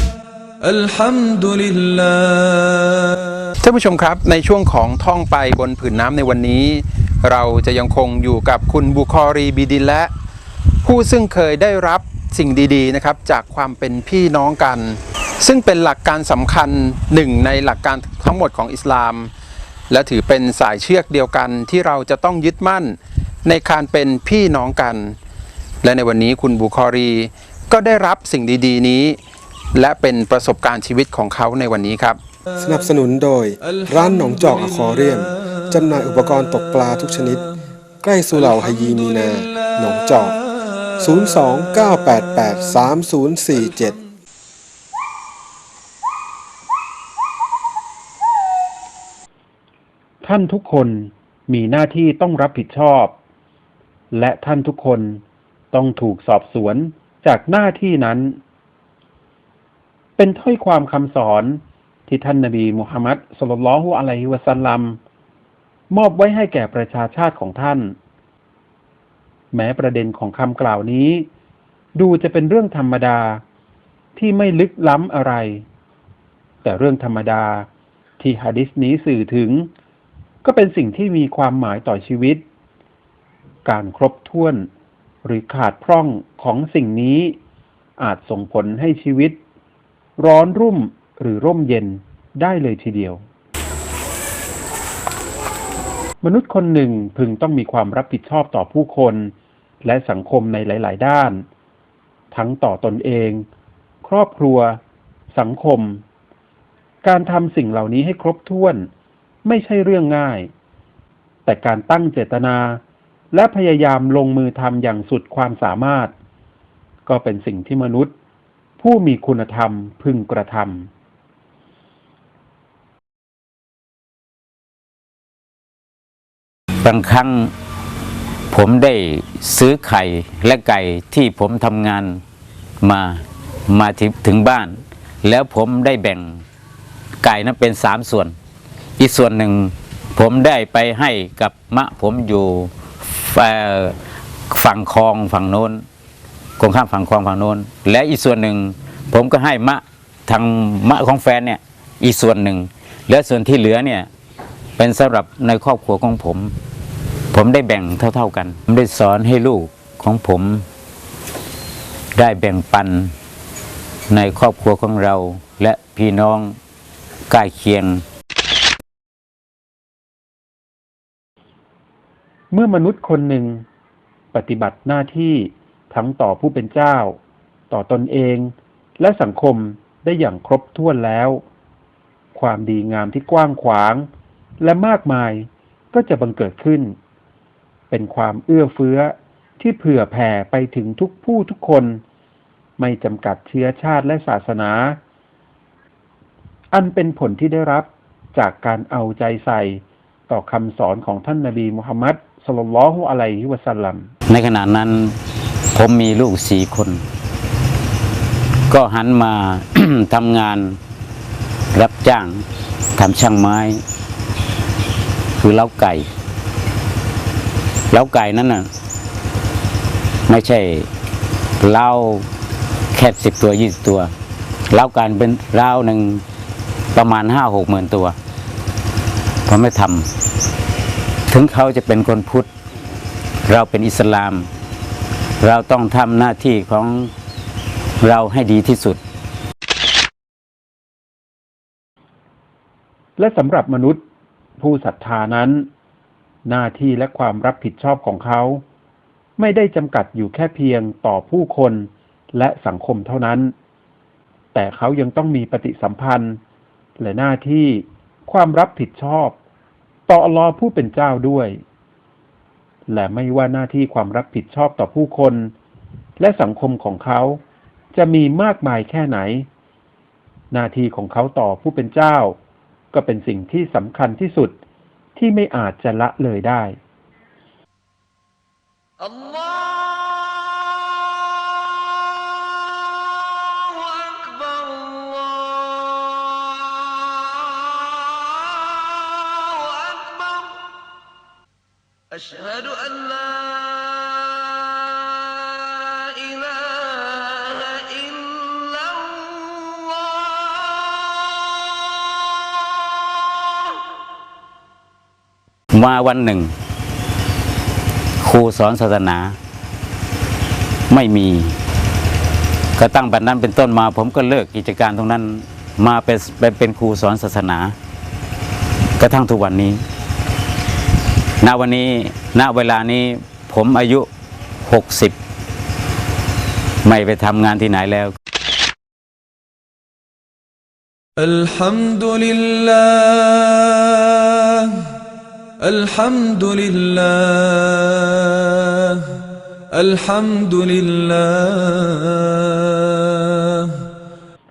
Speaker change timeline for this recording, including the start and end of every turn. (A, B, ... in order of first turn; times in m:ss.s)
0:00.6-0:03.3 A
0:03.6-0:10.1 B
0:10.8-0:19.3 B
0:19.9-0:25.2 B
0:25.8-0:29.2 B
0:29.8-0:32.2 B
0:32.6-0:37.5 C
0:33.7-0:35.2 A
0:38.0-0:40.4 C
0:38.5-0:39.3 A
0:41.0-0:44.0 C
0:50.2-0:53.2 D
0:54.1-0:58.4 D
1:00.2-1:05.0 D
1:05.9-1:07.9 D
1:09.5-1:11.3 D
1:12.0-1:13.4 D
1:14.2-1:15.6 D
1:16.6-1:17.7 D
1:18.2-1:19.7 D
1:20.4-1:22.4 D
1:23.6-1:24.7 D
1:25.2-1:27.4 D
1:28.0-1:29.4 D
1:30.2-1:33.2 D
1:36.2-1:41.4 D
1:42.3-1:43.4 D
1:44.0-1:44.8 D
1:45.3-1:46.0 D
1:47.0-1:48.9 D
1:49.4-1:50.5 D
1:51.5-1:52.8 D
1:53.3-1:56.1 D
1:57.1-1:58.1 D
1:58.8-2:00.9 D
2:06.8-2:07.5 E
2:08.5-2:12.2 E
2:12.8-2:16.4 E
2:17.2-2:18.4 E
2:19.0-2:24.0 E
2:24.5-2:25.8 E
2:26.6-2:34.1 E
2:34.8-2:36.5 E
2:37.3-2:40.6 E
2:42.2-2:43.1 E
2:44.1-2:46.6 E
2:47.3-2:48.0 E
2:52.5-2:53.6 D
2:54.3-2:57.2 D
2:57.7-3:01.4 D
3:02.3-3:04.1 D
3:04.6-3:06.9 D
3:07.9-3:12.0 D
3:12.8-3:15.0 D
3:16.7-3:24.1 D
3:24.3-3:25.2 E
3:25.7-3:27.0 E
3:28.7-3:30.8 E
3:31.7-3:32.4 E
3:33.0-3:33.8 E
3:35.4-3:36.1 E
3:37.9-3:38.7 E
3:40.3-3:40.9 E
3:41.6-3:42.3 E
3:42.9-3:44.1 E
3:44.7-3:46.2 E
3:47.0-3:48.2 E
3:49.5-3:50.1 E
3:51.3-3:52.5 E
3:53.5-3:54.5 E
3:55.4-3:57.1 E
3:58.0-3:59.0 E
4:03.2-4:04.0 D
4:04.6-4:05.7 D
4:06.5-4:08.6 D
4:09.4-4:13.5 D
4:14.5-4:16.4 D
4:17.0-4:19.4 D
4:20.1-4:21.6 D
4:22.9-4:25.5 D
4:26.2-4:27.4 D
4:27.9-4:29.5 D
4:30.5-4:32.4 D
4:32.9-4:34.6 D
4:35.2-4:36.8 D
4:43.9-4:45.4 A
4:49.4-4:50.5 A
4:52.2-4:54.4 A
4:56.0-4:59.8 A
5:05.7-5:06.5 E
5:08.2-5:09.4 E
5:10.9-5:11.6 E
5:12.8-5:17.8 E
5:19.0-5:19.8 E
5:21.4-5:24.1 E
5:24.6-5:25.2 E
5:26.8-5:28.1 E
5:31.2-5:34.8 A
5:35.6-5:39.1 A
5:39.7-5:43.8 A